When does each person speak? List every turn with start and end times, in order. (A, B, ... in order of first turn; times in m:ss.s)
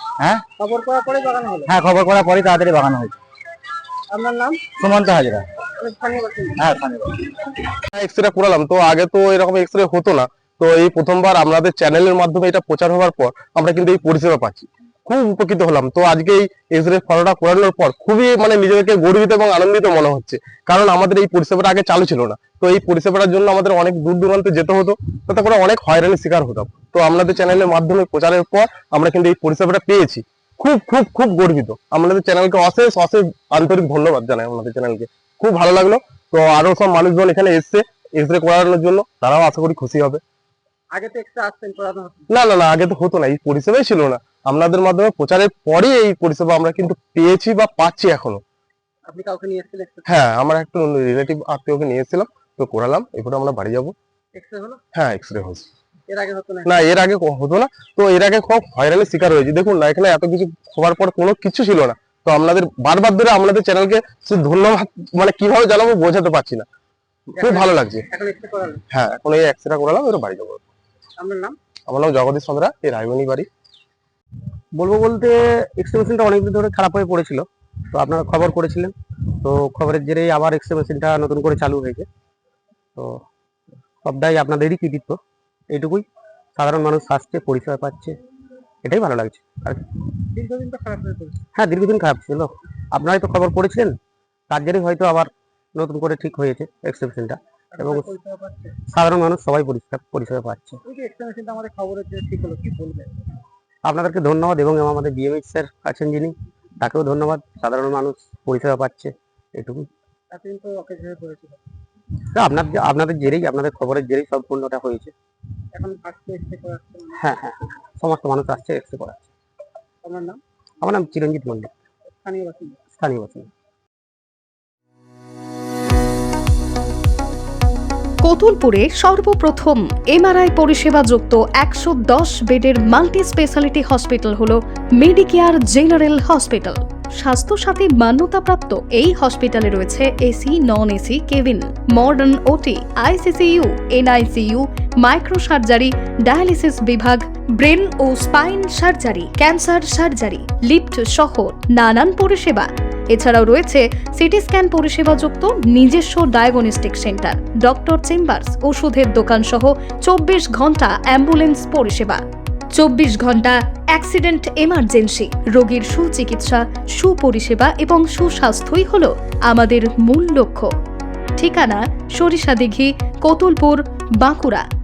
0:00.6-0:01.7 A
0:01.6-0:03.1 B
0:04.1-0:04.6 A
0:04.8-0:05.4 B
0:05.8-0:06.6 A
0:06.6-0:07.3 B
0:07.9-0:40.2 C
0:40.9-0:42.3 A
0:42.3-0:48.4 C
0:49.1-0:50.1 A
0:50.0-0:53.9 C
0:54.3-0:54.8 A
0:54.9-0:55.7 C
0:56.1-0:56.7 A
0:56.6-1:06.6 C
1:07.4-1:08.8 A
1:07.4-1:08.0 C
1:08.9-1:10.7 C
1:11.2-1:11.6 A
1:11.9-1:13.5 C
1:14.7-1:22.1 D
1:23.0-1:23.2 D
1:24.0-1:28.2 D
1:28.8-1:29.8 D
1:30.3-1:31.4 A
1:31.5-1:34.0 D
1:34.5-1:38.1 D
1:37.8-1:38.7 A
1:38.9-1:40.8 D
1:40.8-1:43.2 A
1:43.8-1:49.9 D
1:50.3-1:51.6 A
1:52.3-1:55.1 D
1:55.7-1:57.2 A
1:57.1-1:59.3 D
2:00.0-2:00.4 A
2:00.8-2:01.7 D
2:02.1-2:02.8 A
2:02.9-2:03.5 D
2:08.2-2:50.7 E
2:51.4-2:54.6 E